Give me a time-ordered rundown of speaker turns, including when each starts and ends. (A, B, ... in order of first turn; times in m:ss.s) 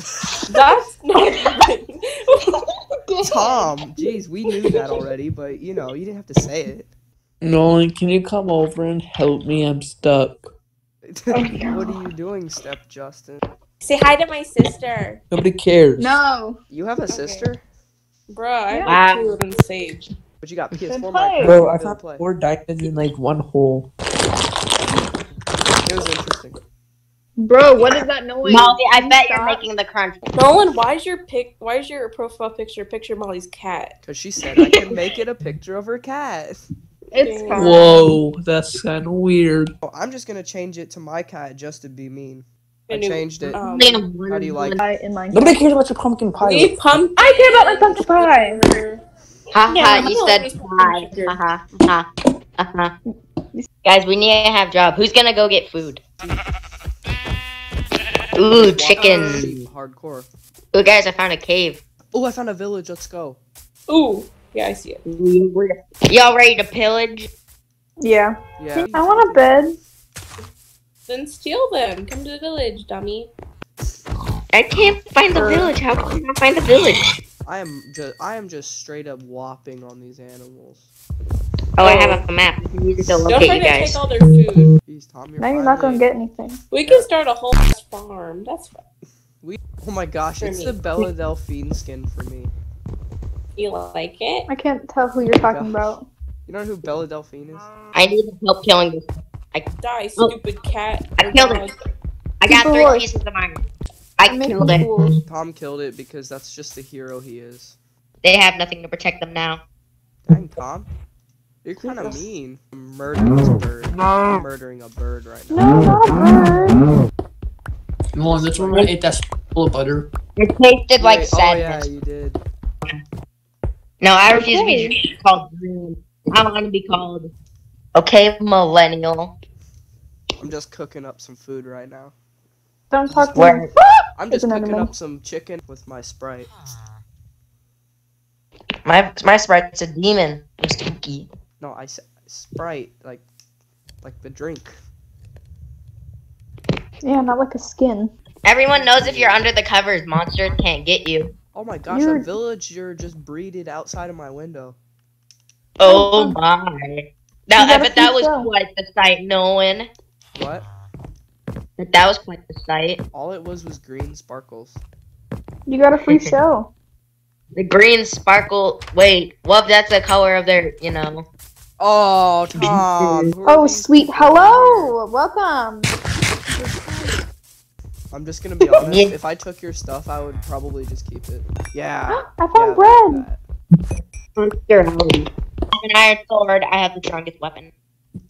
0:00.5-0:02.7 A
0:03.1-0:03.7 B
0:03.2-0:06.9 C
0:07.4-0:10.5 D
0:11.0-0:13.4 C
0:11.3-0:12.0 B
0:13.8-0:15.2 A
0:15.3-0:16.1 D
0:16.0-0:16.6 B
0:16.7-0:17.6 C
0:17.1-0:17.5 A
0:18.3-0:20.1 A
0:18.7-0:19.0 B
0:18.9-0:19.4 E
0:20.4-0:22.2 C
0:20.9-0:21.5 B
0:21.4-0:23.9 D
0:25.8-0:26.6 C
0:27.4-0:29.6 B
0:28.4-0:30.3 E
0:30.3-0:33.9 A
0:34.0-0:36.6 C
0:37.1-0:37.8 A
0:37.1-0:38.1 E
0:37.5-0:39.7 D
0:39.8-0:43.6 C
0:42.9-0:44.0 A
0:43.6-0:44.8 E
0:44.3-0:44.8 C
0:44.8-0:45.6 B
0:45.3-0:46.7 D
0:46.4-0:49.0 A
0:47.2-0:48.7 B
0:49.5-0:52.1 E
0:49.7-0:51.4 A
0:52.6-0:52.9 E
0:53.8-0:56.0 E
0:58.3-0:59.6 E
0:58.5-1:00.3 C
0:59.0-0:59.4 A
1:00.7-1:01.8 E
1:02.1-1:03.4 C
1:03.9-1:05.0 A
1:05.0-1:07.3 E
1:08.0-1:08.3 B
1:08.6-1:09.7 C
1:08.9-1:09.8 B
1:11.1-1:13.3 A
1:14.5-1:17.1 E
1:15.3-1:15.8 A
1:17.4-1:20.9 C
1:21.8-1:24.0 E
1:21.8-1:22.2 A
1:23.3-1:24.7 A
1:24.8-1:26.0 C
1:25.4-1:26.6 B
1:26.7-1:28.8 A
1:26.8-1:27.1 C
1:29.4-1:32.5 C
1:30.4-1:30.8 A
1:33.6-1:34.5 A
1:34.5-1:36.1 B
1:35.4-1:37.7 C
1:37.9-1:40.4 E
1:39.8-1:41.8 A
1:41.2-1:41.7 E
1:42.4-1:43.6 E
1:42.5-1:43.1 B
1:44.2-1:44.9 E
1:44.2-1:45.2 B
1:45.2-1:47.8 C
1:48.2-1:49.6 E
1:50.2-1:50.9 C
1:51.6-1:55.8 C
1:51.8-1:52.2 B
1:55.5-1:56.8 B
1:58.1-2:00.1 D
2:00.4-2:01.9 E
2:01.0-2:02.4 C
2:04.0-2:07.3 E
2:04.4-2:05.0 B
2:08.0-2:09.3 E
2:10.4-2:12.1 C
2:12.9-2:14.9 B
2:13.1-2:13.4 C
2:13.3-2:13.7 E
2:14.2-2:16.5 C
2:18.8-2:21.3 E
2:21.6-2:23.2 C
2:24.0-2:24.8 C
2:27.0-2:28.1 B
2:28.4-2:31.3 E
2:28.7-2:29.5 C
2:31.5-2:34.8 C
2:31.9-2:32.3 B
2:35.8-2:39.9 E
2:35.8-2:36.4 B
2:37.5-2:38.5 B
2:40.3-2:40.6 C
2:41.8-2:43.0 E
2:43.1-2:44.8 C
2:45.7-2:46.7 B
2:46.0-2:46.3 E
2:47.5-2:51.2 E
2:51.8-2:54.9 C
2:52.5-2:53.3 E
2:53.4-2:55.9 B
2:56.5-2:57.2 B
2:58.1-3:03.4 C
2:58.8-2:59.1 E
3:02.1-3:03.3 B
3:04.4-3:07.7 E